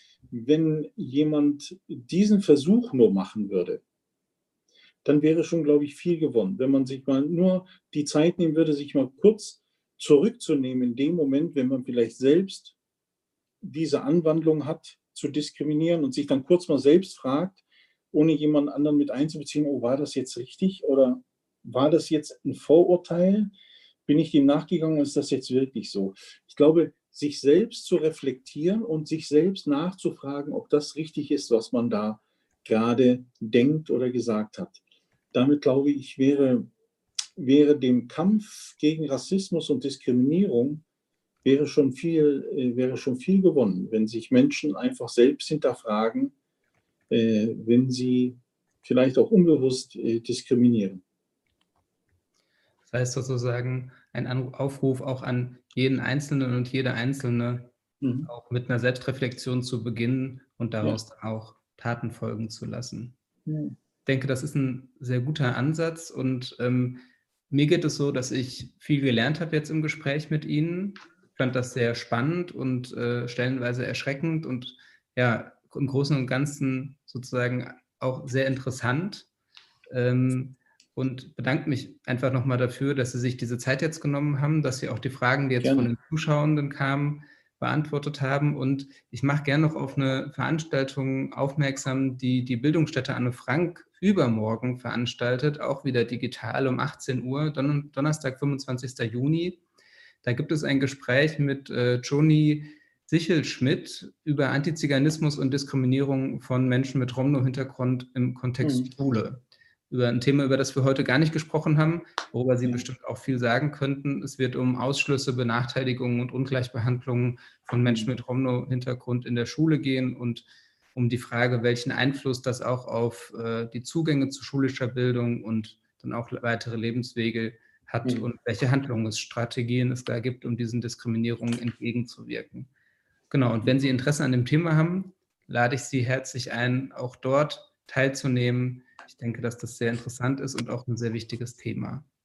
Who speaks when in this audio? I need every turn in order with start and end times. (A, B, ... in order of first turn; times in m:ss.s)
0:00.3-0:03.8 A
0:05.0-0:12.7 A
0:13.6-0:17.6 A
0:18.1-0:23.5 A
0:24.1-0:34.8 A
0:35.3-0:36.7 A
0:37.4-0:40.8 A
0:41.4-0:46.3 A
0:47.1-0:51.0 A
0:52.9-0:57.7 B
0:58.0-0:58.3 A
0:58.2-1:03.1 B
1:03.4-1:03.8 A
1:04.0-1:19.3 B
1:19.9-1:39.6 B
1:25.6-1:25.9 A
1:40.2-2:12.7 B
1:48.6-1:48.9 A
2:13.3-2:22.0 B